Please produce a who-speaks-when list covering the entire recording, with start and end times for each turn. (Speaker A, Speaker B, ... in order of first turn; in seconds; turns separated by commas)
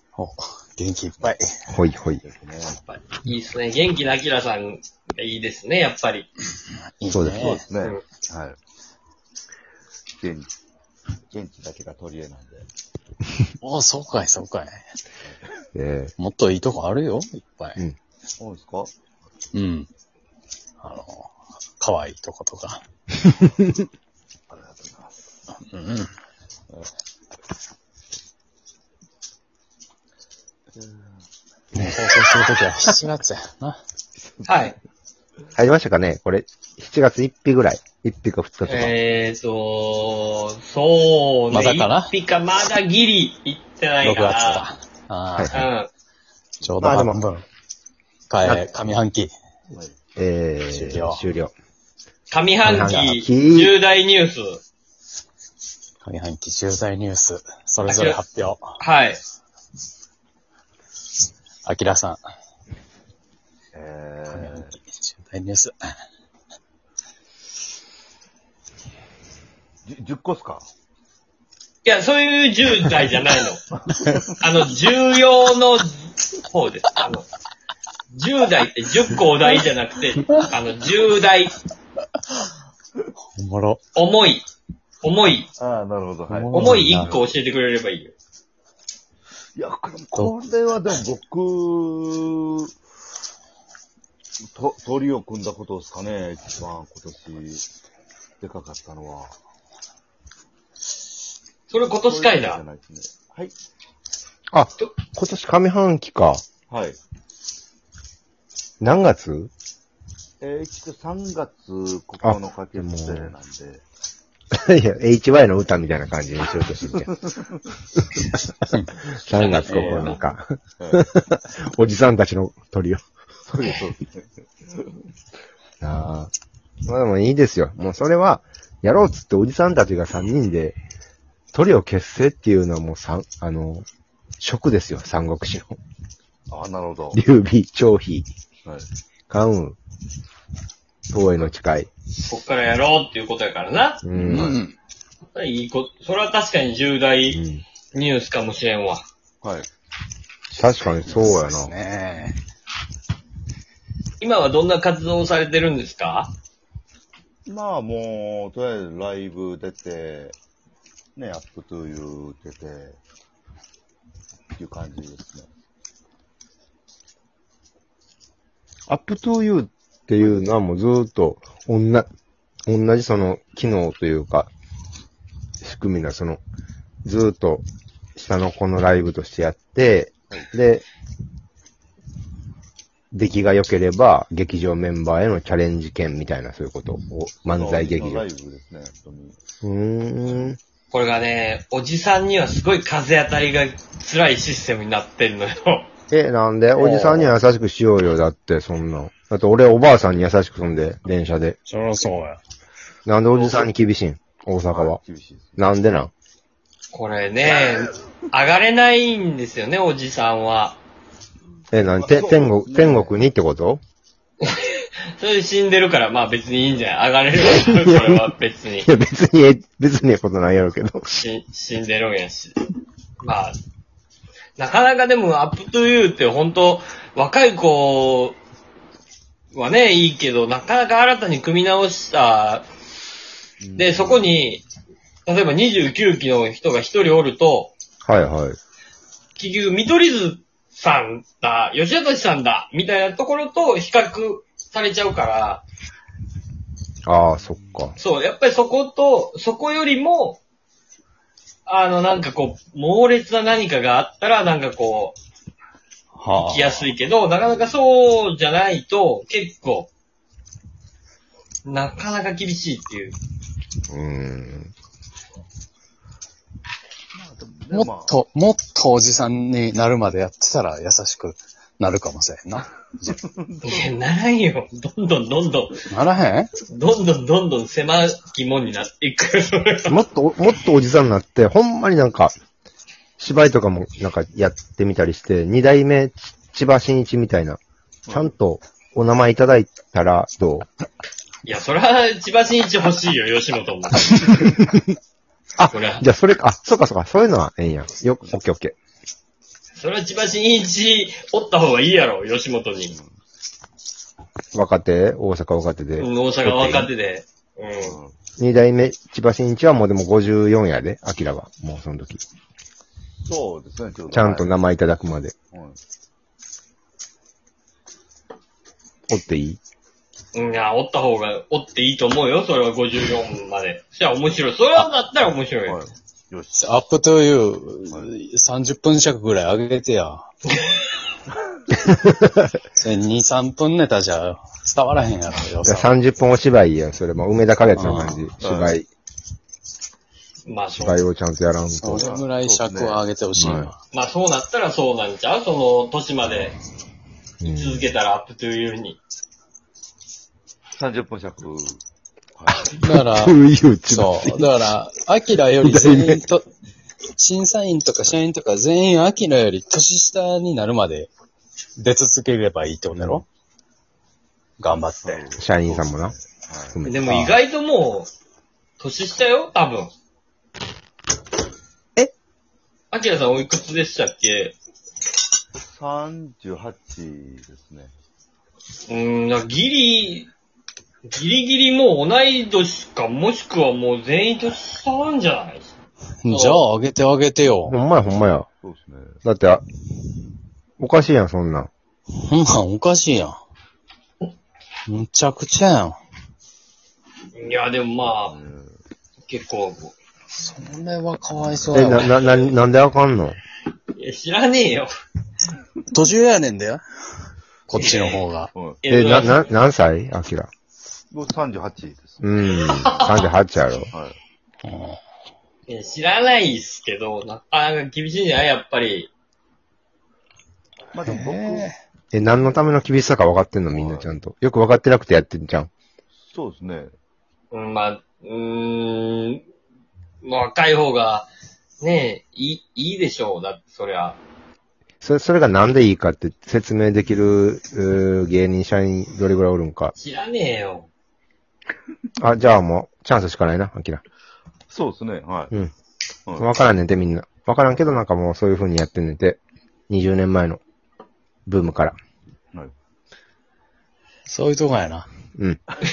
Speaker A: 0.2-1.5, Speaker B: 1.7-2.2, Speaker C: 2.2-2.8, Speaker D: 2.8-6.3, Speaker A: 7.0-7.6, Speaker B: 7.1-7.5, Speaker C: 7.3-8.6, Speaker C: 10.2-10.5, Speaker C: 11.3-12.7, Speaker A: 13.6-14.8, Speaker B: 15.8-16.1, Speaker A: 16.2-17.8, Speaker C: 18.4-18.9, Speaker A: 19.5-19.9, Speaker A: 20.8-22.8, Speaker C: 24.5-25.1, Speaker A: 25.7-26.1, Speaker C: 30.7-31.3, Speaker A: 31.8-33.8, Speaker C: 34.2-34.6, Speaker D: 34.5-34.8, Speaker B: 35.5-38.9, Speaker D: 38.7-44.7, Speaker A: 41.5-42.1, Speaker A: 44.0-45.7, Speaker B: 45.4-45.6, Speaker D: 45.5-45.9, Speaker A: 46.6-47.4, Speaker B: 46.8-47.2, Speaker A: 48.3-49.3, Speaker B: 48.4-48.8, Speaker C: 49.7-50.0, Speaker B: 50.2-51.5, Speaker A: 50.7-51.2, Speaker D: 52.3-54.6, Speaker B: 52.6-53.8, Speaker A: 56.0-58.7, Speaker D: 57.9-58.2, Speaker D: 58.8-59.2, Speaker A: 61.6-62.2, Speaker C: 63.7-64.8, Speaker A: 64.3-65.8, Speaker C: 69.9-70.7, Speaker D: 71.8-73.6, Speaker D: 74.4-77.2, Speaker D: 78.1-81.5, Speaker A: 83.2-83.8, Speaker D: 84.0-84.5, Speaker D: 85.0-85.5, Speaker C: 85.6-87.1, Speaker A: 86.3-87.2, Speaker D: 86.5-88.1, Speaker C: 89.5-92.7, Speaker C: 94.5-97.7, Speaker C: 98.4-99.3, Speaker D: 101.7-102.6, Speaker C: 101.9-103.5, Speaker B: 104.5-106.4, Speaker C: 106.7-107.0, Speaker B: 108.8-109.5, Speaker C: 110.4-113.8, Speaker B: 112.2-113.3, Speaker B: 114.5-117.1, Speaker C: 117.3-117.6, Speaker B: 119.1-123.0, Speaker D: 119.3-120.2, Speaker A: 119.7-120.0, Speaker C: 123.5-124.3, Speaker B: 125.8-126.3, Speaker B: 126.9-130.8, Speaker B: 131.5-133.9, Speaker B: 134.4-135.8, Speaker C: 136.5-137.2, Speaker B: 137.1-138.3, Speaker B: 139.3-139.8, Speaker B: 141.1-141.9, Speaker D: 142.2-144.0, Speaker B: 144.0-144.6, Speaker A: 144.2-144.8, Speaker D: 145.3-147.4, Speaker B: 147.3-147.6, Speaker D: 147.9-149.0, Speaker C: 149.4-149.7, Speaker B: 150.5-151.7, Speaker A: 151.1-152.4, Speaker D: 154.2-156.3, Speaker C: 157.5-160.4, Speaker C: 161.2-163.0, Speaker C: 164.6-165.5, Speaker B: 168.9-172.1, Speaker B: 172.7-174.5, Speaker B: 175.6-176.4, Speaker B: 177.0-177.6, Speaker B: 178.2-180.8, Speaker B: 183.1-188.2, Speaker C: 187.4-189.4, Speaker B: 189.6-190.6, Speaker D: 190.9-195.9, Speaker B: 196.1-201.6, Speaker D: 196.8-197.3, Speaker A: 201.7-202.4, Speaker B: 203.1-205.0, Speaker D: 203.3-203.7, Speaker C: 204.7-205.7, Speaker B: 205.6-206.1, Speaker D: 206.9-210.8, Speaker B: 211.7-213.8, Speaker C: 211.8-213.2, Speaker D: 214.4-218.9, Speaker B: 217.4-218.3, Speaker B: 218.8-221.1, Speaker D: 221.1-222.5, Speaker D: 223.2-223.6, Speaker D: 224.6-228.4, Speaker D: 229.5-232.7, Speaker C: 233.6-234.3, Speaker D: 233.8-234.6, Speaker D: 235.3-237.7, Speaker B: 238.1-238.6, Speaker D: 239.4-245.6, Speaker B: 247.1-248.0, Speaker D: 248.0-250.4, Speaker D: 251.7-255.2, Speaker C: 256.2-256.9, Speaker D: 256.3-259.9, Speaker D: 261.6-263.2, Speaker B: 263.9-264.7, Speaker C: 267.1-268.2, Speaker A: 267.7-273.2, Speaker C: 273.3-273.9, Speaker D: 273.6-275.8, Speaker A: 275.9-276.5, Speaker D: 276.7-280.0, Speaker B: 279.9-282.3, Speaker B: 283.2-290.7, Speaker C: 288.1-288.3, Speaker D: 291.4-294.1, Speaker B: 294.1-294.8, Speaker B: 295.6-298.7, Speaker D: 295.7-296.1, Speaker D: 299.8-303.0, Speaker B: 304.5-306.9, Speaker D: 306.0-308.0, Speaker C: 307.8-308.2, Speaker B: 308.4-312.2, Speaker C: 313.2-314.5, Speaker B: 314.1-315.3, Speaker C: 315.5-315.8, Speaker B: 319.1-319.6, Speaker D: 320.3-325.8, Speaker C: 325.6-326.6, Speaker A: 326.5-330.3, Speaker B: 331.9-332.3, Speaker A: 332.8-335.9, Speaker B: 335.6-338.9, Speaker A: 337.8-338.3, Speaker C: 338.4-338.8, Speaker D: 340.5-341.1, Speaker B: 340.7-342.1, Speaker A: 341.7-343.8, Speaker C: 341.9-343.7, Speaker B: 343.4-343.7, Speaker D: 343.9-346.6, Speaker B: 347.4-347.9, Speaker D: 347.4-349.0, Speaker C: 350.8-351.8, Speaker C: 352.4-352.8, Speaker A: 352.8-353.4, Speaker B: 352.8-354.6, Speaker A: 353.9-356.5, Speaker B: 355.6-356.3, Speaker A: 357.1-361.1, Speaker A: 361.8-363.3, Speaker A: 364.6-365.2, Speaker C: 365.0-366.8, Speaker B: 365.4-366.1, Speaker B: 366.7-367.4, Speaker D: 366.9-368.1, Speaker D: 368.8-369.9, Speaker D: 372.9-374.6, Speaker C: 375.7-377.9, Speaker D: 378.9-380.3, Speaker D: 381.1-385.7, Speaker A: 386.2-387.8, Speaker D: 386.3-386.6, Speaker B: 387.7-388.5, Speaker C: 388.6-389.2, Speaker B: 389.2-389.6, Speaker B: 390.8-391.7, Speaker A: 392.1-393.4, Speaker A: 394.9-396.0, Speaker D: 397.4-398.4, Speaker C: 398.0-398.8, Speaker D: 399.2-399.9, Speaker A: 400.4-402.1, Speaker B: 401.7-403.4, Speaker D: 402.0-402.5, Speaker D: 404.0-404.9, Speaker A: 405.9-406.8, Speaker A: 407.7-408.5, Speaker D: 407.7-408.2, Speaker C: 408.5-408.8, Speaker D: 408.8-409.5, Speaker B: 408.9-410.5, Speaker C: 411.1-412.2, Speaker B: 412.2-413.9, Speaker D: 412.6-413.3, Speaker C: 413.9-414.2, Speaker A: 414.6-415.0, Speaker D: 415.7-419.1, Speaker C: 420.9-421.7, Speaker A: 421.0-421.8, Speaker B: 422.1-425.7, Speaker C: 423.7-424.1, Speaker C: 426.1-426.9, Speaker D: 427.5-429.4, Speaker D: 430.2-431.3, Speaker D: 431.8-434.2, Speaker B: 435.0-439.9, Speaker D: 439.9-440.9, Speaker B: 442.2-444.0, Speaker C: 444.7-445.5, Speaker C: 446.3-446.5, Speaker B: 446.4-450.6, Speaker B: 451.5-451.9, Speaker A: 454.3-455.1